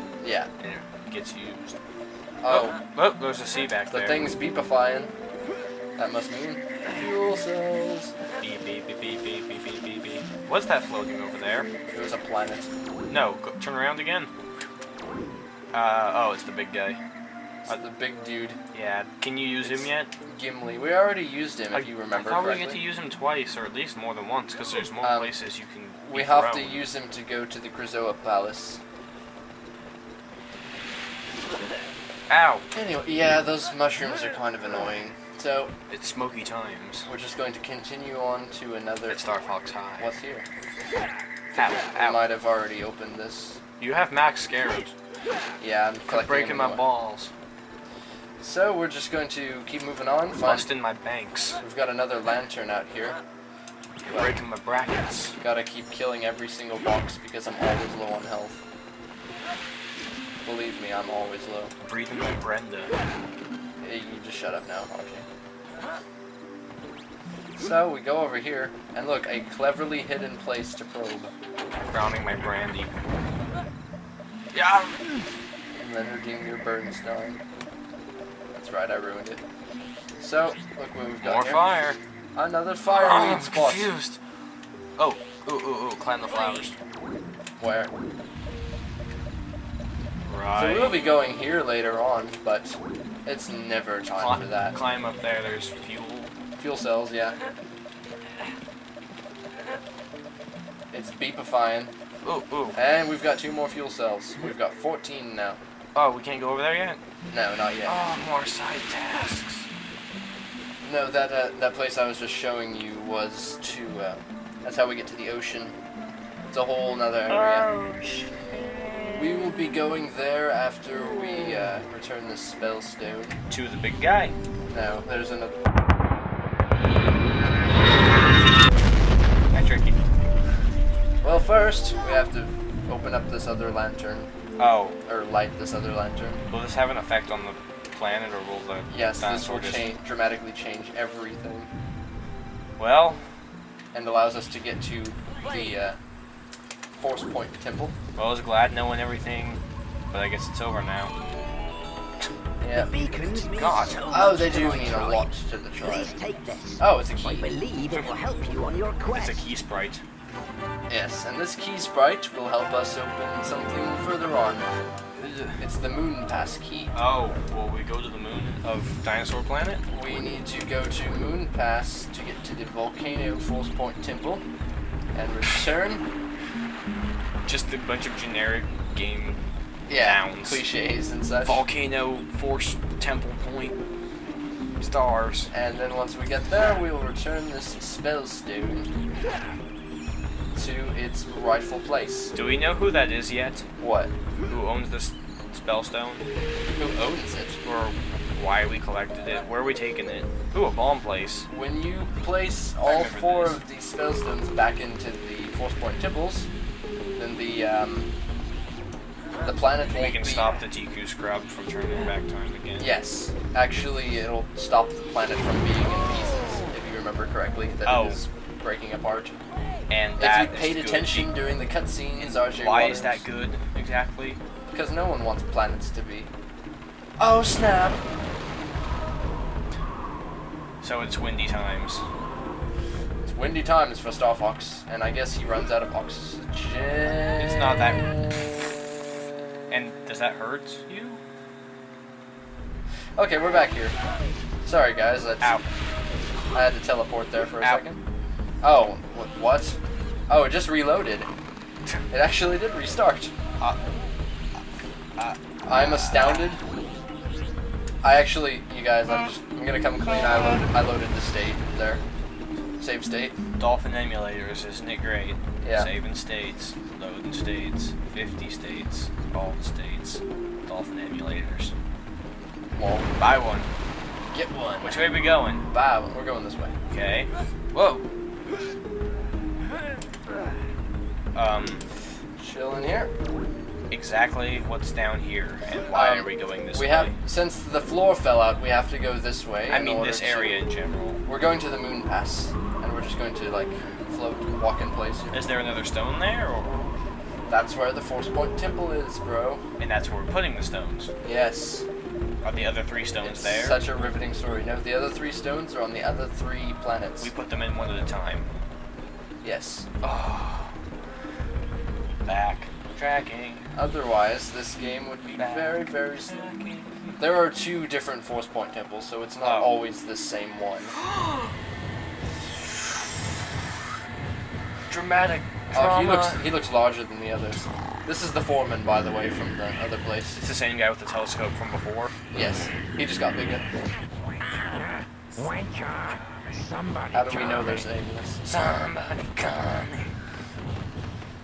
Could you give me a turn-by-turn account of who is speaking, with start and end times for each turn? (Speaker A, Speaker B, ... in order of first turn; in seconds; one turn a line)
Speaker A: 0.2-0.5
Speaker B: 0.6-1.8
Speaker A: 2.4-2.8
Speaker B: 2.5-4.3
Speaker A: 3.9-5.1
Speaker A: 6.0-8.1
Speaker B: 8.4-11.7
Speaker A: 11.9-12.7
Speaker B: 13.1-14.3
Speaker B: 15.7-17.0
Speaker A: 17.6-18.6
Speaker B: 18.7-20.1
Speaker A: 19.6-22.8
Speaker B: 21.7-26.9
Speaker A: 25.0-25.3
Speaker A: 26.0-28.8
Speaker B: 32.3-32.6
Speaker A: 32.7-35.7
Speaker B: 35.9-37.1
Speaker A: 37.0-39.3
Speaker B: 39.1-40.1
Speaker A: 40.0-40.5
Speaker B: 41.5-42.2
Speaker A: 41.5-43.6
Speaker B: 43.8-44.9
Speaker A: 45.6-46.9
Speaker B: 46.0-47.3
Speaker A: 48.4-50.7
Speaker B: 50.4-51.6
Speaker A: 51.6-53.2
Speaker B: 54.0-55.4
Speaker A: 55.4-58.6
Speaker A: 60.4-61.7
Speaker B: 61.8-62.9
Speaker A: 63.8-65.2
Speaker A: 67.6-71.3
Speaker B: 71.8-72.9
Speaker B: 74.5-75.1
Speaker A: 75.7-77.4
Speaker A: 78.5-79.4
Speaker A: 80.2-81.6
Speaker B: 81.2-82.0
Speaker A: 82.3-83.9
Speaker B: 82.8-84.2
Speaker B: 85.0-86.8
Speaker A: 87.6-87.9
Speaker B: 90.2-91.0
Speaker A: 90.5-94.8
Speaker B: 94.1-96.3
Speaker A: 96.6-97.4
Speaker A: 100.9-101.9
Speaker B: 102.2-102.8
Speaker A: 102.7-105.6
Speaker B: 105.9-107.0
Speaker A: 107.3-108.0
Speaker B: 107.8-109.7
Speaker A: 110.8-115.7
Speaker A: 116.5-117.7
Speaker B: 117.3-119.2
Speaker A: 119.1-123.4
Speaker B: 123.5-124.3
Speaker A: 124.7-125.5
Speaker B: 129.5-130.0
Speaker A: 131.2-134.3
Speaker B: 134.6-135.0
Speaker A: 135.1-136.4
Speaker B: 136.5-139.9
Speaker A: 138.9-141.7
Speaker B: 142.8-143.2
Speaker A: 143.9-146.0
Speaker A: 147.0-147.9
Speaker B: 148.2-149.6
Speaker B: 150.1-151.1
Speaker A: 152.6-153.1
Speaker C: 152.7-155.3
Speaker B: 153.5-154.1
Speaker A: 154.0-156.1
Speaker C: 155.8-159.5
Speaker A: 156.8-157.5
Speaker B: 157.8-158.1
Speaker B: 159.1-160.0
Speaker A: 160.9-164.7
Speaker B: 165.2-165.6
Speaker A: 165.6-166.9
Speaker B: 166.9-169.8
Speaker A: 169.9-174.4
Speaker A: 175.1-176.1
Speaker B: 177.4-179.4
Speaker A: 179.9-181.7
Speaker B: 179.9-180.6
Speaker B: 181.4-183.8
Speaker B: 184.8-185.5
Speaker A: 185.5-188.9
Speaker A: 190.5-192.3
Speaker B: 192.3-193.7
Speaker A: 193.8-194.1
Speaker B: 194.5-196.2
Speaker A: 196.7-197.6
Speaker B: 197.6-201.5
Speaker A: 201.5-206.5
Speaker B: 202.8-203.6
Speaker A: 207.2-208.1
Speaker A: 209.4-210.6
Speaker B: 209.9-212.9
Speaker A: 212.8-219.4
Speaker B: 217.8-218.2
Speaker B: 219.9-221.3
Speaker A: 220.2-223.2
Speaker B: 222.2-224.4
Speaker A: 224.7-226.3
Speaker A: 227.2-228.1
Speaker B: 230.8-232.1
Speaker A: 233.2-238.1
Speaker B: 237.4-238.2
Speaker B: 239.7-241.2
Speaker A: 243.2-243.9
Speaker A: 244.6-245.6
Speaker A: 246.5-248.0
Speaker A: 248.6-251.3
Speaker A: 252.1-253.3
Speaker B: 255.2-256.3
Speaker A: 255.6-256.6
Speaker A: 258.0-262.0
Speaker A: 262.8-263.4
Speaker B: 263.6-271.7
Speaker A: 265.6-265.9
Speaker A: 272.7-273.1
Speaker B: 273.2-273.7
Speaker A: 274.3-276.7
Speaker B: 274.8-275.6
Speaker B: 276.9-278.0
Speaker B: 281.3-281.8
Speaker A: 282.4-283.1
Speaker B: 283.9-287.1
Speaker A: 285.9-290.6
Speaker B: 289.7-291.2
Speaker A: 291.2-295.4
Speaker B: 295.3-296.9
Speaker A: 297.5-299.6
Speaker B: 299.8-301.1
Speaker A: 301.2-301.9
Speaker B: 302.4-303.8
Speaker A: 303.2-307.3
Speaker B: 307.2-308.5
Speaker A: 309.4-309.9
Speaker B: 310.0-310.7
Speaker B: 312.2-313.6
Speaker A: 313.7-316.5
Speaker B: 315.3-317.2
Speaker A: 317.2-320.9
Speaker B: 319.4-319.8
Speaker B: 320.9-321.5
Speaker B: 324.9-326.5
Speaker A: 325.7-330.4
Speaker B: 330.3-332.1
Speaker A: 332.3-333.6
Speaker A: 337.1-338.4
Speaker B: 338.4-340.1